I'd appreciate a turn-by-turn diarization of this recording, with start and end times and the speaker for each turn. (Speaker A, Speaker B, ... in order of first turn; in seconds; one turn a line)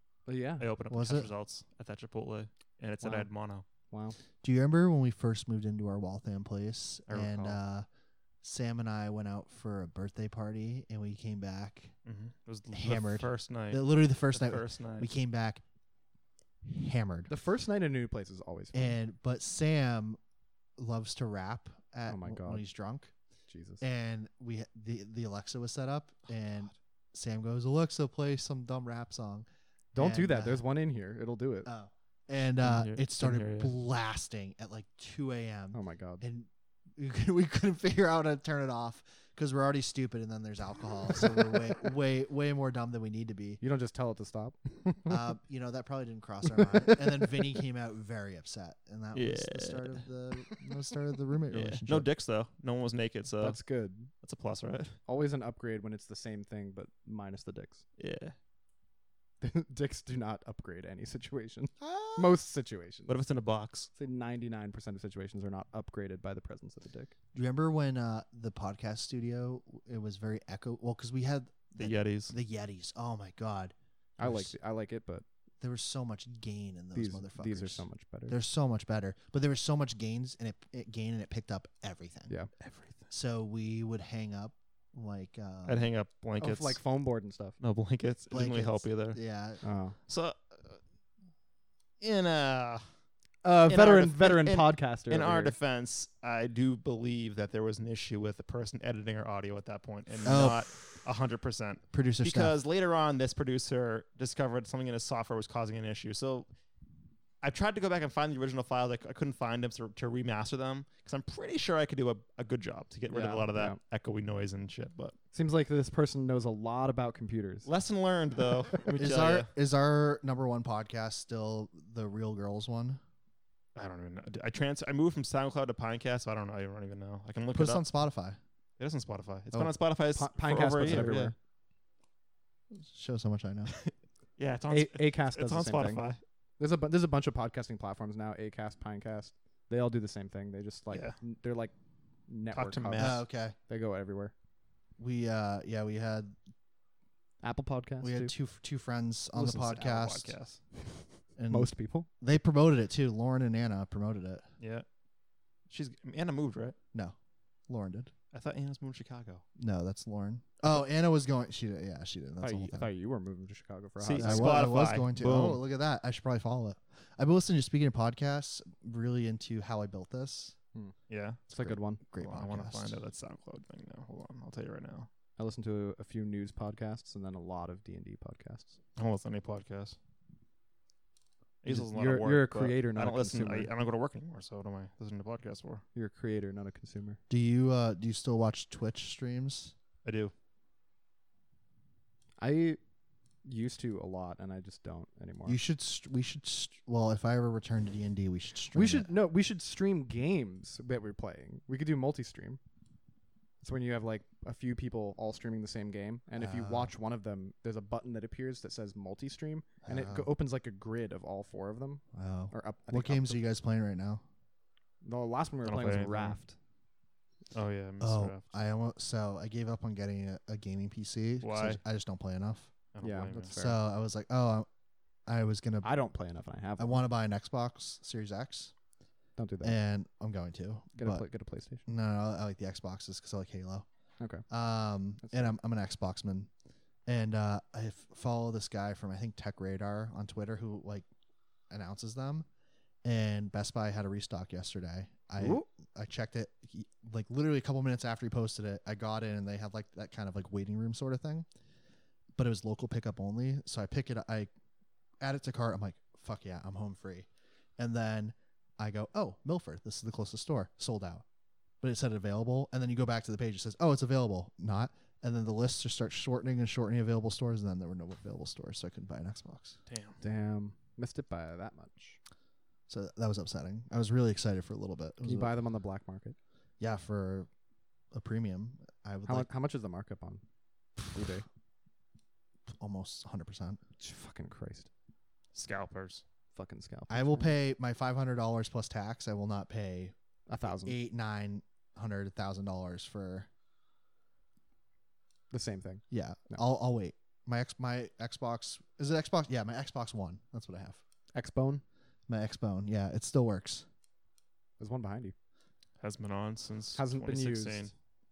Speaker A: 0.3-0.7
Speaker B: 0.6-3.6
Speaker C: 0.9-1.3
Speaker A: 3.0-3.3
Speaker A: 3.9-4.2
Speaker C: 4.4-7.8
Speaker B: 7.1-7.5
Speaker C: 8.4-11.9
Speaker B: 12.0-15.1
Speaker C: 12.7-15.6
Speaker C: 16.6-17.3
Speaker A: 17.3-18.9
Speaker C: 18.7-20.2
Speaker C: 20.8-23.1
Speaker A: 22.1-22.6
Speaker A: 23.5-23.8
Speaker C: 23.8-30.6
Speaker A: 29.9-31.7
Speaker C: 31.6-43.6
Speaker B: 32.6-33.7
Speaker A: 35.7-36.2
Speaker A: 43.6-45.2
Speaker C: 45.1-52.1
Speaker A: 46.8-47.2
Speaker B: 49.1-50.0
Speaker B: 51.5-53.6
Speaker A: 53.4-54.1
Speaker B: 54.2-55.0
Speaker A: 55.0-57.8
Speaker B: 58.0-58.3
Speaker A: 59.4-63.1
Speaker C: 61.8-62.4
Speaker B: 63.1-63.9
Speaker A: 64.0-67.1
Speaker C: 67.3-74.5
Speaker B: 71.8-72.3
Speaker A: 74.2-75.2
Speaker C: 75.6-82.3
Speaker A: 76.9-78.4
Speaker B: 82.6-83.1
Speaker C: 83.1-85.9
Speaker B: 85.7-86.8
Speaker A: 86.4-87.6
Speaker B: 87.6-89.2
Speaker C: 88.3-89.6
Speaker A: 89.6-90.0
Speaker B: 90.1-90.8
Speaker B: 92.0-92.8
Speaker A: 93.4-95.5
Speaker B: 93.7-106.5
Speaker C: 100.2-100.7
Speaker C: 101.9-102.5
Speaker B: 107.4-115.1
Speaker A: 113.1-113.8
Speaker A: 115.3-117.7
Speaker B: 117.6-119.5
Speaker C: 118.9-123.0
Speaker B: 123.7-127.8
Speaker C: 127.5-128.4
Speaker B: 128.8-131.3
Speaker A: 130.1-131.3
Speaker C: 130.8-131.2
Speaker C: 132.7-133.7
Speaker B: 133.7-136.2
Speaker A: 134.7-136.0
Speaker A: 136.6-141.7
Speaker B: 140.9-141.2
Speaker A: 142.3-144.3
Speaker B: 142.5-143.2
Speaker C: 142.9-143.6
Speaker C: 145.0-146.3
Speaker A: 147.4-148.3
Speaker C: 148.0-150.3
Speaker B: 149.3-150.6
Speaker C: 151.4-154.4
Speaker A: 151.5-152.1
Speaker B: 154.6-154.8
Speaker B: 155.7-156.8
Speaker C: 157.7-158.1
Speaker B: 158.3-159.4
Speaker C: 159.6-162.9
Speaker A: 162.4-164.7
Speaker B: 164.0-165.6
Speaker C: 164.2-170.6
Speaker B: 171.1-171.4
Speaker A: 171.5-172.0
Speaker C: 171.5-173.0
Speaker B: 172.2-175.1
Speaker A: 175.4-178.7
Speaker B: 179.0-180.0
Speaker B: 181.6-185.8
Speaker A: 181.7-183.7
Speaker A: 185.9-187.2
Speaker C: 187.3-189.7
Speaker B: 190.0-190.3
Speaker A: 192.4-192.8
Speaker A: 193.4-195.6
Speaker C: 195.4-199.1
Speaker A: 198.7-202.6
Speaker A: 203.6-213.4
Speaker C: 206.4-206.9
Speaker C: 209.8-210.3
Speaker C: 212.1-214.2
Speaker A: 215.0-216.6
Speaker B: 215.6-216.4
Speaker B: 217.5-218.5
Speaker C: 218.0-222.7
Speaker B: 221.4-221.8
Speaker B: 222.9-223.5
Speaker A: 223.0-223.8
Speaker C: 223.6-224.7
Speaker C: 225.2-225.9
Speaker A: 225.8-227.0
Speaker C: 226.8-228.7
Speaker A: 229.4-229.8
Speaker C: 229.6-231.2
Speaker A: 231.0-231.9
Speaker C: 231.9-233.8
Speaker A: 234.2-234.4
Speaker C: 234.5-236.5
Speaker A: 235.2-235.5
Speaker C: 237.1-241.1
Speaker C: 241.7-242.4
Speaker C: 243.0-251.5
Speaker A: 245.4-245.7
Speaker C: 252.3-254.5
Speaker C: 255.2-257.3
Speaker C: 257.8-261.2
Speaker C: 261.8-269.8
Speaker B: 269.9-270.2
Speaker A: 270.2-272.2
Speaker C: 272.9-275.5
Speaker A: 275.2-276.4
Speaker C: 276.8-277.5
Speaker C: 278.1-279.5
Speaker A: 279.2-280.4
Speaker A: 281.1-281.4
Speaker C: 282.7-283.8
Speaker A: 284.0-284.9
Speaker B: 285.5-286.2
Speaker A: 286.5-287.5
Speaker C: 287.1-290.1
Speaker A: 290.5-291.0
Speaker C: 290.8-293.5
Speaker A: 295.5-296.6
Speaker C: 296.1-301.0
Speaker A: 301.3-301.8
Speaker C: 302.3-303.9
Speaker A: 304.8-305.3
Speaker B: 306.0-307.9
Speaker A: 306.9-307.9